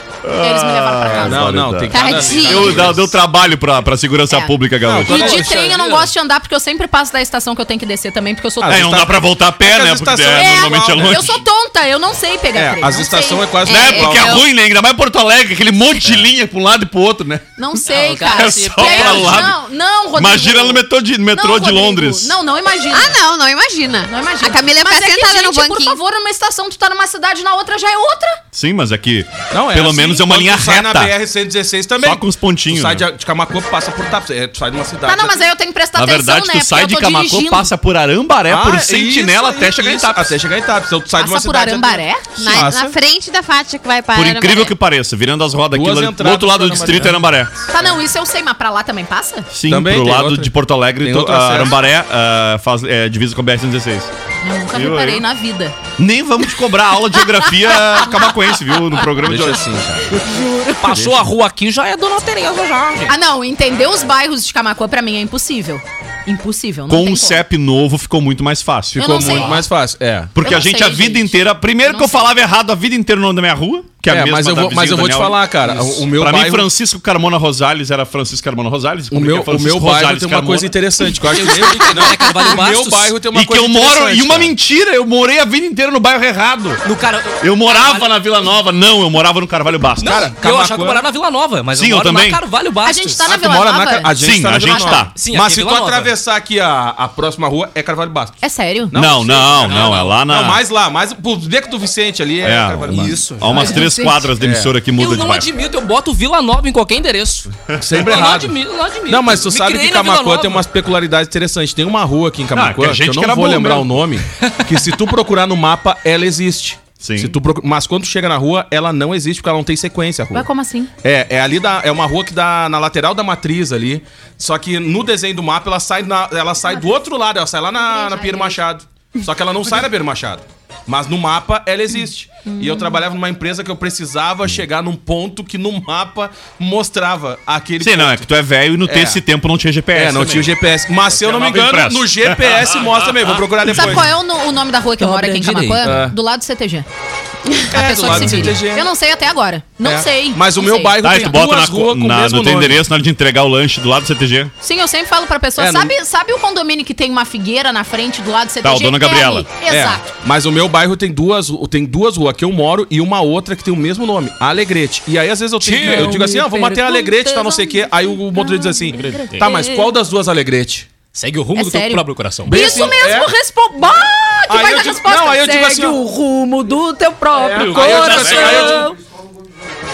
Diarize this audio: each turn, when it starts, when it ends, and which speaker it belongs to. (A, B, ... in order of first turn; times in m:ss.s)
0:00.2-0:05.3 A
0:00.4-0:01.4 B
0:01.0-0:03.1 C
0:01.9-0:02.9 D
0:02.0-0:02.6 B
0:04.3-0:04.6 B
0:04.8-0:05.6 C
0:05.1-0:08.9 B
0:05.1-0:06.1 E
0:08.6-0:11.4 C
0:08.6-0:11.4 A
0:10.3-0:13.5 B
0:12.5-0:14.4 C
0:13.6-0:14.4 D
0:13.7-0:17.5 A
0:17.6-0:23.2 B
0:17.9-0:19.5 E
0:18.3-0:19.6 A
0:20.1-0:22.3 A
0:22.9-0:26.0 D
0:24.0-0:28.4 B
0:28.5-0:31.1 A
0:29.5-0:35.5 C
0:32.0-0:33.0 A
0:35.0-0:37.7 B
0:35.9-0:40.3 A
0:38.5-0:43.0 C
0:41.2-0:42.3 B
0:42.4-0:44.7 D
0:42.4-0:42.7 A
0:44.1-0:47.5 A
0:45.7-0:47.2 C
0:47.7-0:49.5 B
0:49.5-0:54.1 A
0:49.7-0:51.8 C
0:54.4-0:55.7 B
0:54.7-0:55.2 A
0:56.0-0:59.6 A
0:59.2-1:00.2 C
1:00.2-1:00.8 B
1:00.3-1:03.1 E
1:00.9-1:01.2 C
1:03.1-1:07.4 B
1:06.9-1:09.5 A
1:09.0-1:09.6 B
1:09.0-1:10.4 C
1:10.3-1:20.8 A
1:10.4-1:12.2 B
1:14.0-1:16.7 C
1:19.1-1:24.5 C
1:21.2-1:23.2 E
1:23.3-1:26.8 A
1:26.8-1:28.2 E
1:27.4-1:30.3 A
1:30.0-1:31.0 C
1:30.0-1:33.2 E
1:31.7-1:32.4 A
1:32.8-1:34.1 B
1:33.2-1:38.4 C
1:34.2-1:35.1 A
1:35.1-1:36.1 E
1:38.4-1:38.9 B
1:38.9-1:43.2 C
1:38.9-1:40.6 A
1:39.7-1:40.1 E
1:42.4-1:45.5 A
1:42.9-1:43.9 E
1:43.5-1:44.3 B
1:44.4-1:44.7 C
1:45.0-1:50.6 E
1:47.7-1:48.1 A
1:47.8-2:00.5 C
1:52.5-1:54.0 A
1:57.0-1:57.4 A
2:00.3-2:00.9 B
2:01.0-2:18.3 C
2:06.6-2:06.9 B
2:07.8-2:08.6 B
2:12.4-2:13.0 B
2:17.8-2:20.5 A
2:18.8-2:19.2 C
2:19.9-2:24.1 C
2:21.2-2:24.0 A
2:23.7-2:26.9 B
2:25.0-2:26.0 E
2:25.8-2:26.1 C
2:27.7-2:31.0 B
2:27.7-2:28.9 C
2:29.8-2:32.8 C
2:31.0-2:34.5 A
2:34.6-2:40.0 B
2:35.6-2:35.9 C
2:38.6-2:39.5 A
2:39.7-2:50.9 C
2:45.6-2:46.3 E
2:45.8-2:49.9 B
2:49.0-2:49.5 E
2:51.1-2:52.9 E
2:51.5-2:58.9 B
2:52.4-2:53.3 C
2:54.5-2:56.0 C
2:57.4-2:58.8 E
2:57.5-2:58.9 C
2:58.0-2:58.7 A